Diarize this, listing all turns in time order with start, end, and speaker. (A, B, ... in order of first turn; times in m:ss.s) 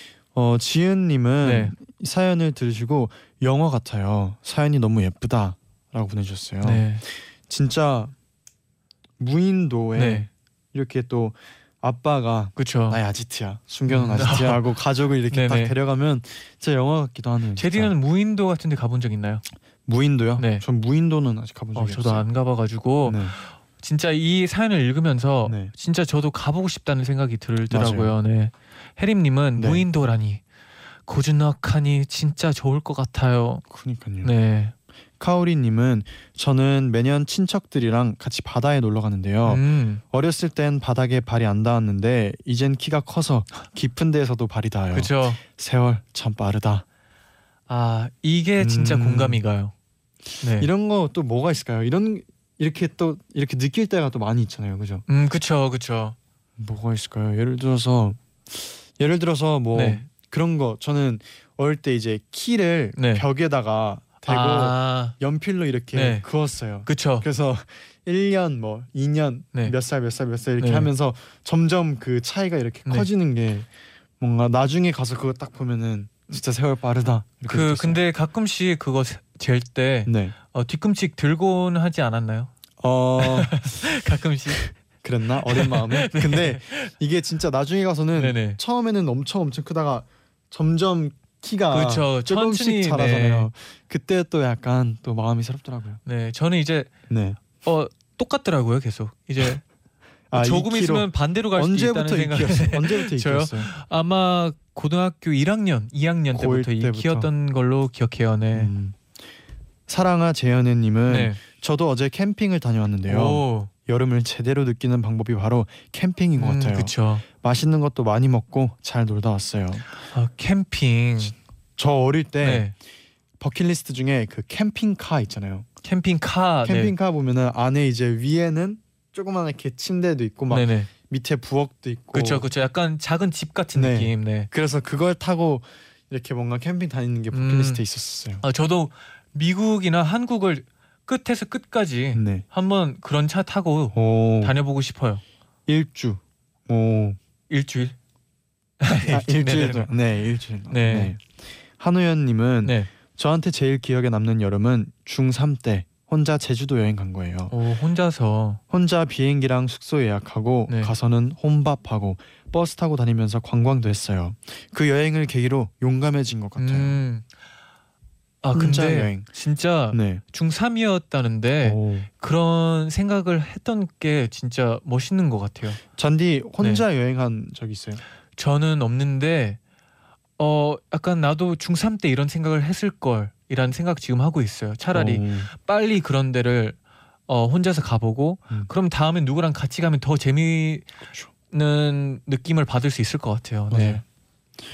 0:00.3-0:08.1 A
0:01.4-0:01.8 B
0:06.6-0:07.0 B
0:09.2-0:17.9 A
0:10.0-0:10.3 B
0:12.6-0:13.0 B
0:13.9-0:14.8 B
0:15.3-0:15.8 B
0:17.6-0:19.4 B
0:19.9-0:22.3 A
0:20.4-0:20.6 B
0:21.8-0:30.4 B
0:23.0-0:23.4 A
0:25.4-0:25.7 A
0:27.7-0:28.1 A
0:29.6-0:29.8 A
0:31.1-0:33.6 B
0:33.7-0:34.3 A
0:34.2-0:34.7 B
0:35.2-0:46.8 A
0:39.4-0:40.0 B
0:44.9-0:45.4 B
0:47.7-0:49.7 B
0:48.6-0:49.4 A
0:50.4-0:50.7 B
0:50.6-0:55.0 A
0:55.1-0:56.2 B
0:56.6-1:13.7 A
0:59.7-1:00.0 B
1:03.0-1:03.2 B
1:04.3-1:05.2 B
1:05.9-1:06.2 B
1:06.9-1:07.3 B
1:10.6-1:10.9 B
1:14.2-1:18.0 A
1:17.5-1:22.5 B
1:20.1-1:20.4 A
1:22.8-1:24.0 A
1:23.2-1:24.6 B
1:24.5-1:36.0 A
1:25.4-1:26.9 B
1:28.2-1:28.6 B
1:31.7-1:33.5 B
1:36.1-1:36.9 B
1:37.1-1:37.4 A
1:37.6-1:39.6 B
1:40.3-1:43.7 A
1:40.3-1:48.7 B
1:46.3-1:47.3 A
1:48.5-1:49.1 A
1:49.9-1:59.8 A
1:51.1-1:51.4 B
1:53.1-1:53.7 B
1:56.4-1:57.2 B
2:00.0-2:01.4 B
2:01.8-2:02.7 A
2:02.4-2:02.7 B
2:03.4-2:05.7 A
2:05.8-2:06.9 B
2:06.6-2:12.5 A
2:10.5-2:10.9 B
2:12.1-2:14.5 B
2:13.7-2:18.4 A
2:17.3-2:17.8 B
2:18.4-2:25.2 B
2:22.2-2:22.4 A
2:23.9-2:24.6 A
2:25.7-2:27.2 A
2:27.5-2:28.0 B
2:28.8-2:29.9 B
2:29.1-2:37.6 A
2:30.7-2:31.1 B
2:32.6-2:32.9 B
2:37.5-2:38.6 B
2:38.7-2:47.0 A
2:40.7-2:40.9 B
2:46.6-2:47.3 B
2:48.4-2:55.8 B
2:48.5-2:49.3 A
2:49.9-2:50.2 A
2:51.6-2:52.1 A
2:55.8-2:58.0 A
2:58.4-2:59.6 B
3:00.4-3:10.9 B
3:04.9-3:05.5 A
3:11.5-3:14.0 B
3:13.7-3:14.0 A